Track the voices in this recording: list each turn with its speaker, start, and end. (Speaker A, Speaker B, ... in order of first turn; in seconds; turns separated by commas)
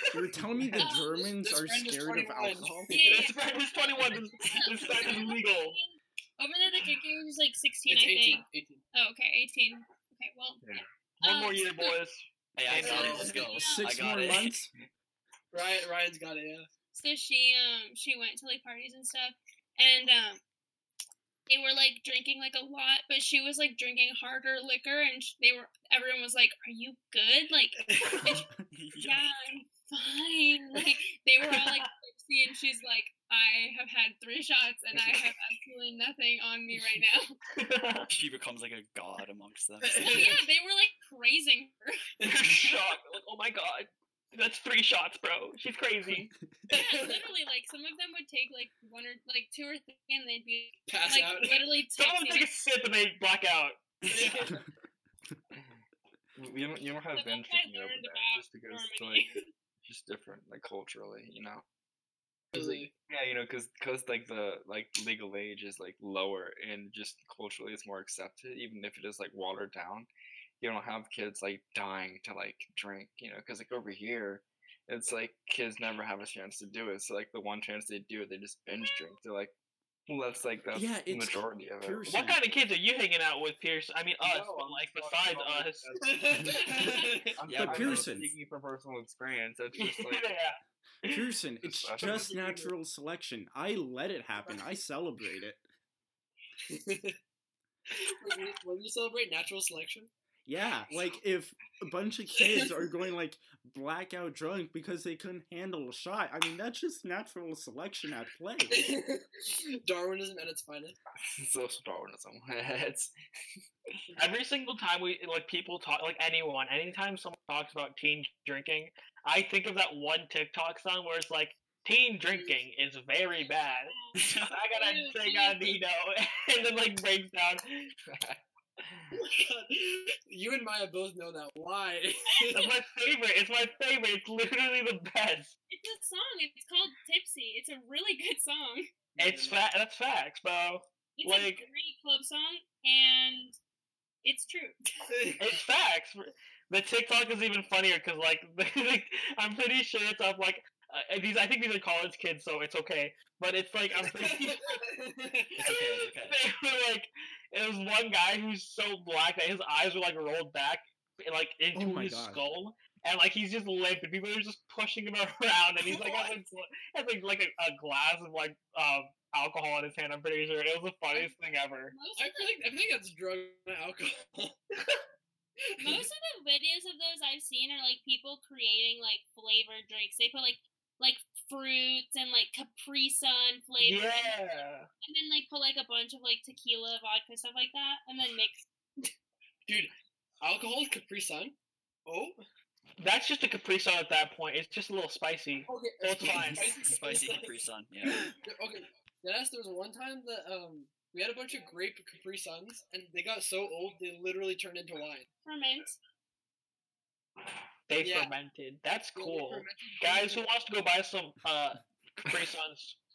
Speaker A: 0.1-3.0, Speaker B: 0.8-1.2, Speaker C: 1.0-3.0, Speaker B: 2.9-3.4, Speaker D: 3.0-5.8, Speaker B: 4.0-12.0, Speaker E: 4.4-5.1, Speaker C: 7.9-8.8, Speaker F: 10.6-10.9, Speaker D: 11.2-13.3, Speaker E: 12.6-14.5, Speaker F: 12.8-13.4, Speaker C: 12.8-13.6, Speaker B: 13.5-13.9, Speaker A: 13.6-14.7, Speaker C: 15.5-16.7, Speaker B: 16.9-20.4, Speaker B: 21.5-28.5, Speaker C: 27.8-28.4, Speaker E: 28.7-29.3, Speaker B: 29.0-37.4, Speaker D: 37.5-38.1, Speaker E: 38.1-40.3, Speaker C: 39.8-40.4, Speaker B: 40.0-42.1, Speaker D: 42.2-46.3, Speaker E: 42.3-42.7, Speaker C: 46.7-47.2, Speaker B: 46.7-52.5, Speaker C: 50.9-51.7, Speaker D: 52.0-53.8, Speaker E: 54.0-54.4, Speaker C: 54.1-54.6, Speaker F: 55.5-55.8, Speaker F: 56.4-59.2, Speaker B: 57.1-59.5, Speaker F: 59.8-61.6, Speaker C: 62.5-62.9, Speaker F: 62.5-70.1, Speaker F: 70.6-79.5, Speaker F: 80.1-82.1, Speaker A: 80.7-82.4, Speaker D: 82.1-85.9, Speaker F: 84.2-90.3, Speaker C: 86.0-87.4, Speaker B: 86.8-87.1, Speaker E: 87.5-88.1, Speaker A: 87.5-88.3, Speaker D: 89.8-91.2, Speaker A: 91.1-95.6, Speaker F: 91.6-92.4, Speaker C: 92.0-92.7, Speaker C: 96.7-97.2, Speaker C: 97.9-100.1, Speaker A: 100.5-108.9, Speaker C: 102.4-102.7, Speaker C: 108.7-111.0, Speaker F: 111.2-113.1, Speaker D: 114.2-124.0, Speaker B: 123.4-124.2, Speaker E: 124.2-124.6, Speaker D: 124.5-127.9, Speaker B: 124.7-125.8, Speaker F: 128.1-129.2, Speaker C: 129.1-132.7, Speaker B: 132.3-132.8, Speaker D: 132.5-135.5, Speaker B: 135.7-138.9, Speaker D: 139.2-141.7, Speaker C: 139.2-139.6, Speaker B: 141.2-143.6, Speaker B: 144.2-144.8, Speaker C: 145.0-145.6, Speaker D: 145.4-154.8, Speaker C: 154.0-155.7, Speaker E: 155.6-156.4, Speaker D: 155.6-171.9, Speaker A: 161.8-162.4, Speaker C: 165.8-166.3, Speaker B: 171.1-172.6, Speaker C: 172.2-174.6, Speaker C: 175.8-176.1, Speaker B: 175.8-184.4, Speaker D: 183.8-184.9, Speaker B: 185.0-188.7, Speaker C: 189.7-191.5, Speaker C: 192.1-192.4, Speaker D: 193.0-196.8, Speaker C: 195.7-197.6, Speaker E: 196.8-198.3, Speaker C: 198.1-205.3, Speaker B: 205.4-206.0, Speaker D: 207.9-213.0, Speaker C: 208.0-208.3, Speaker C: 209.2-210.5